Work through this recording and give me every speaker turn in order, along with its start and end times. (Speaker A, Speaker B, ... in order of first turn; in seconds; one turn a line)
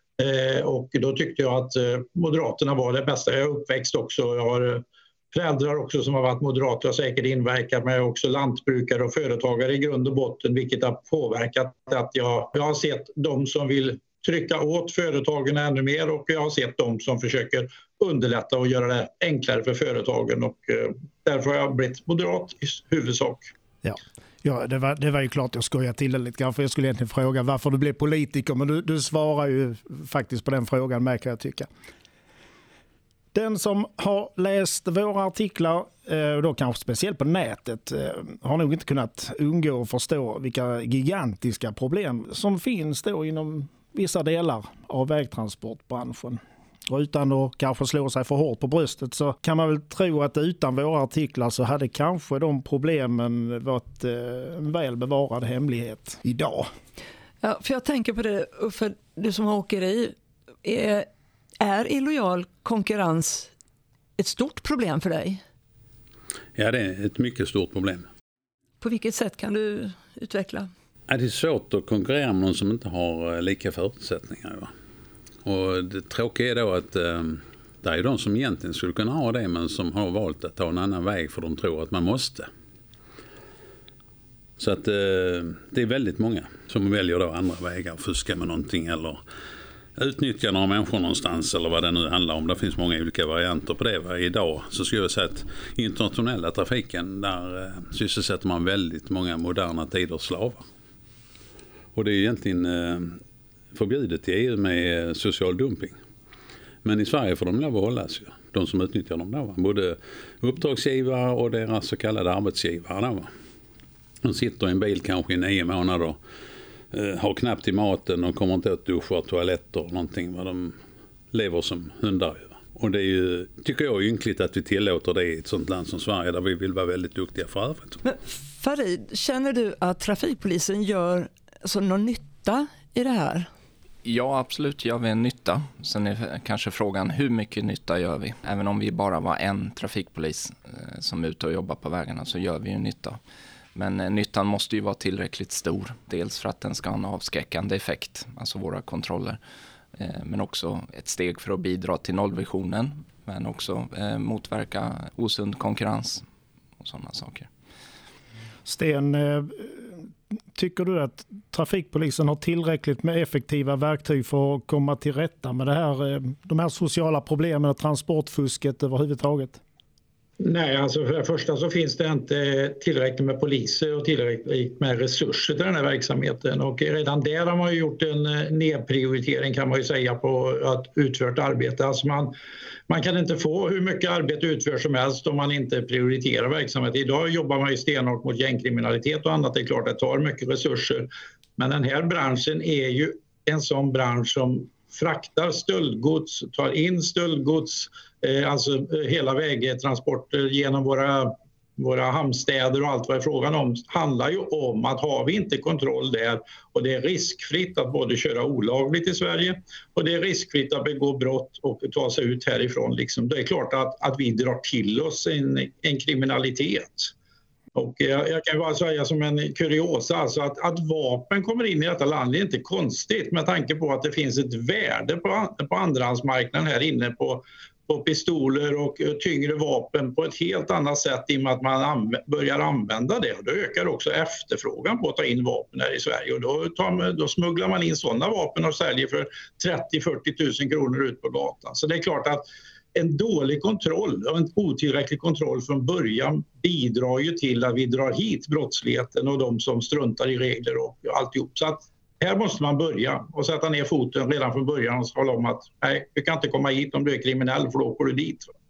Speaker A: 0.2-23.5
Speaker B: 23.8-31.7
Speaker B: 33.3-56.7
Speaker C: 57.4-61.1
Speaker C: 61.6-63.5
Speaker C: 64.2-65.4
Speaker D: 66.5-68.1
Speaker C: 68.8-70.7
Speaker D: 71.1-74.7
Speaker D: 75.4-82.5
Speaker D: 84.6-89.2
Speaker D: 90.0-100.6
Speaker D: 101.9-103.2
Speaker D: 103.7-106.0
Speaker D: 106.8-113.3
Speaker D: 114.2-116.2
Speaker D: 116.9-120.8
Speaker D: 121.3-128.0
Speaker C: 128.0-133.5
Speaker E: 134.0-143.2
Speaker E: 143.7-149.4
Speaker E: 149.9-156.2
Speaker E: 156.8-157.5
Speaker B: 158.6-160.0
Speaker B: 160.5-169.6
Speaker A: 170.4-182.3
Speaker A: 182.9-217.1
Speaker A: 217.7-242.4
Speaker A: 242.9-258.5